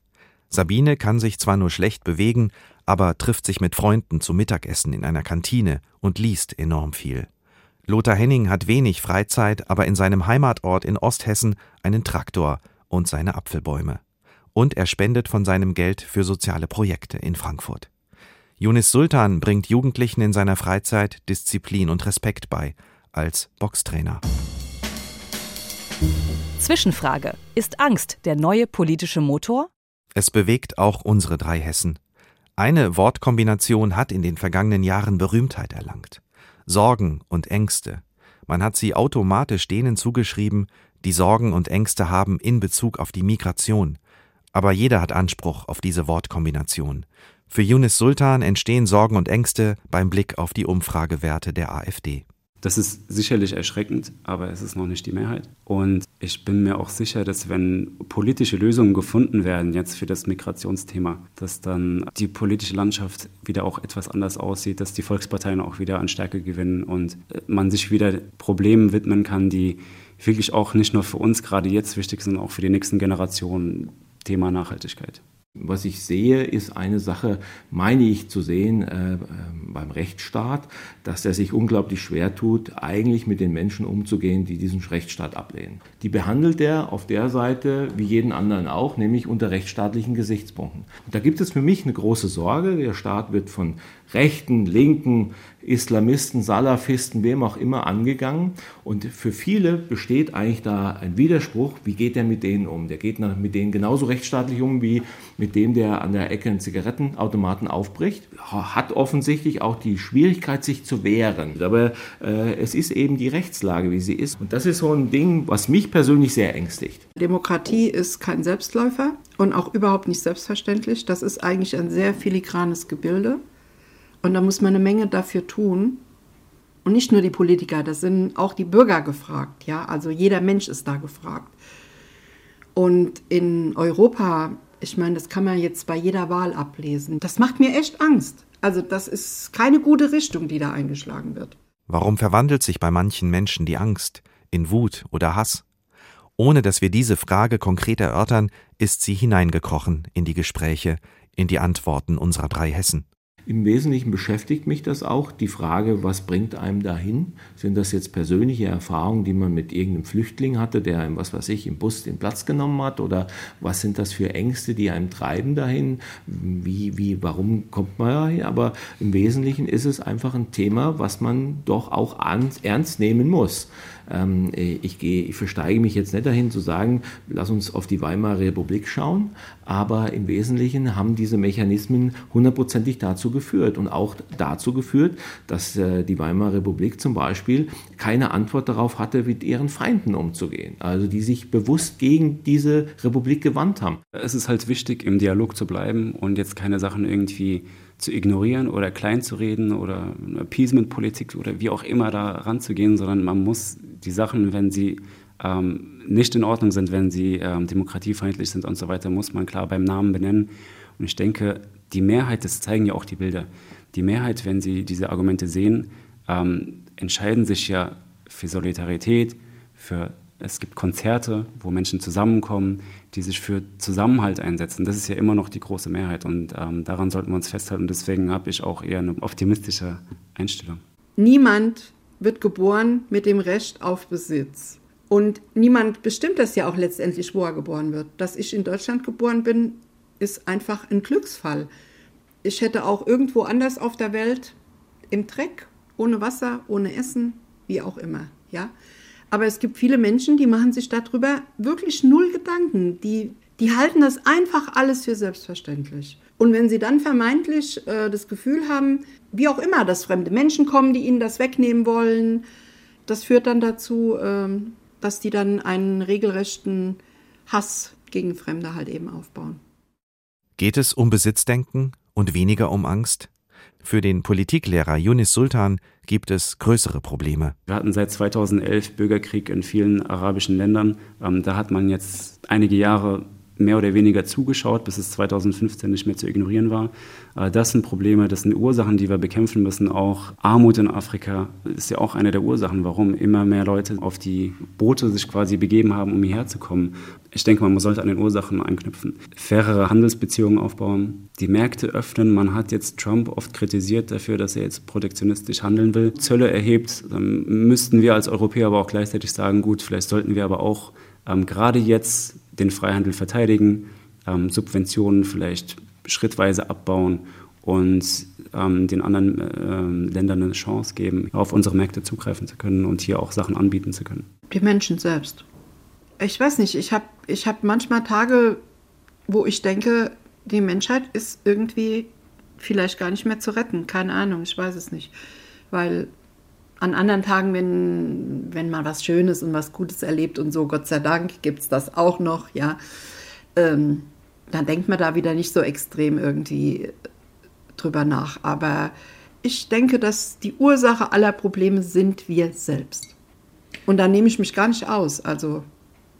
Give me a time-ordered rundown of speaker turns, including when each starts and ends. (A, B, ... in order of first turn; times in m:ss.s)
0:00.5-0:07.3 A
0:07.9-0:14.0 A
0:14.6-0:17.9 A
0:18.6-0:24.2 A
0:26.6-0:29.7 B
0:30.2-0:32.0 A
0:32.6-0:44.0 A
0:44.5-0:52.2 A
0:52.6-1:15.2 C
1:15.6-1:57.0 D
1:57.2-2:03.4 E
2:04.2-2:06.0 E
2:06.8-2:11.6 E
2:12.8-2:21.6 E
2:21.9-2:25.6 A
2:26.4-2:33.1 A
2:33.5-3:14.0 D
3:14.2-3:50.8 C
3:51.2-4:01.7 E
4:02.4-4:04.6 E
4:05.1-4:08.7 E
4:09.3-4:22.5 E
4:23.1-4:29.6 E
4:30.6-4:33.3 A
4:33.8-4:37.6 A
4:37.7-5:24.3 C
5:24.5-5:25.4 E
5:26.2-5:28.6 E
5:29.3-5:35.1 E
5:35.7-5:36.1 E
5:36.8-5:42.8 E
5:43.6-5:46.9 E
5:47.8-5:53.2 E
5:53.9-5:55.7 E